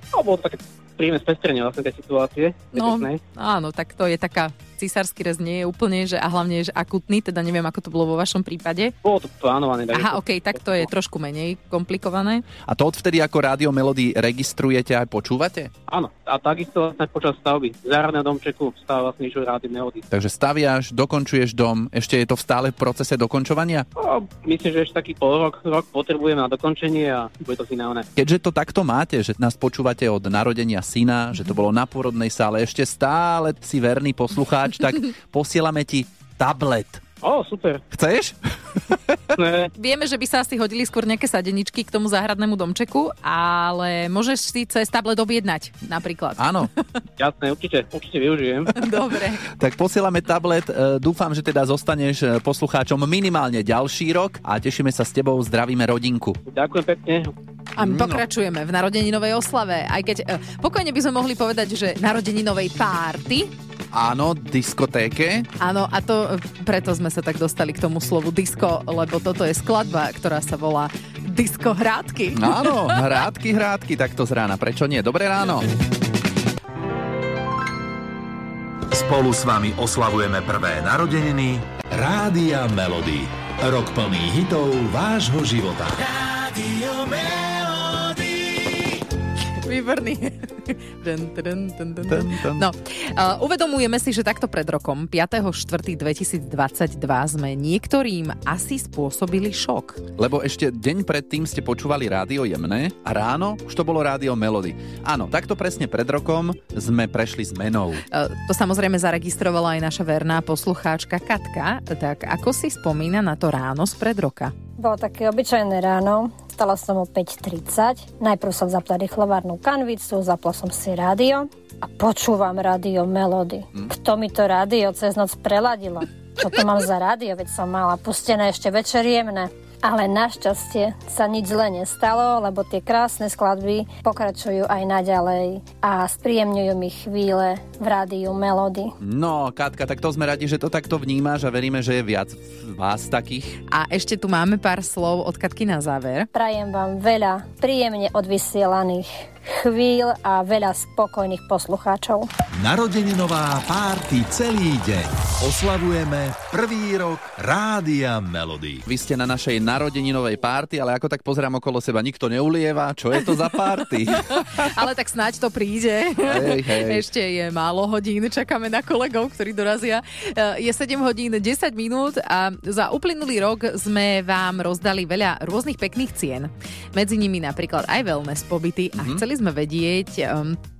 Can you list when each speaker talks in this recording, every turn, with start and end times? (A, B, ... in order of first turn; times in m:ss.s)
0:00.1-0:03.2 A
0:02.7-0:08.9 B
0:09.0-0:10.9 A
0:09.9-0:12.4 B
0:12.7-0:15.7 C
0:15.9-0:20.0 A
0:20.1-0:23.8 C
0:24.0-0:28.0 A
0:28.2-0:37.0 C
0:37.2-0:37.8 A
0:37.9-0:38.4 C
0:38.9-0:39.2 C
0:39.4-0:39.7 A
0:39.7-0:46.6 B
0:46.4-0:46.7 C
0:47.2-0:48.7 A
0:48.8-0:49.4 B
0:49.5-0:56.4 C
0:56.4-0:57.3 A
0:57.8-1:03.5 B
0:57.8-0:58.2 C
1:03.9-1:05.5 C
1:05.6-1:13.0 B
1:12.3-1:15.7 C
1:18.9-1:26.1 D
1:29.6-1:40.0 B
1:32.0-1:32.7 C
1:40.2-1:48.0 C
1:48.1-1:54.5 B
1:54.8-2:18.9 E
2:19.0-2:23.5 C
2:23.7-2:26.3 B
2:26.3-2:32.3 E
2:32.5-2:38.8 D
2:38.8-2:44.7 C
2:44.3-3:00.6 B
2:46.2-2:47.0 C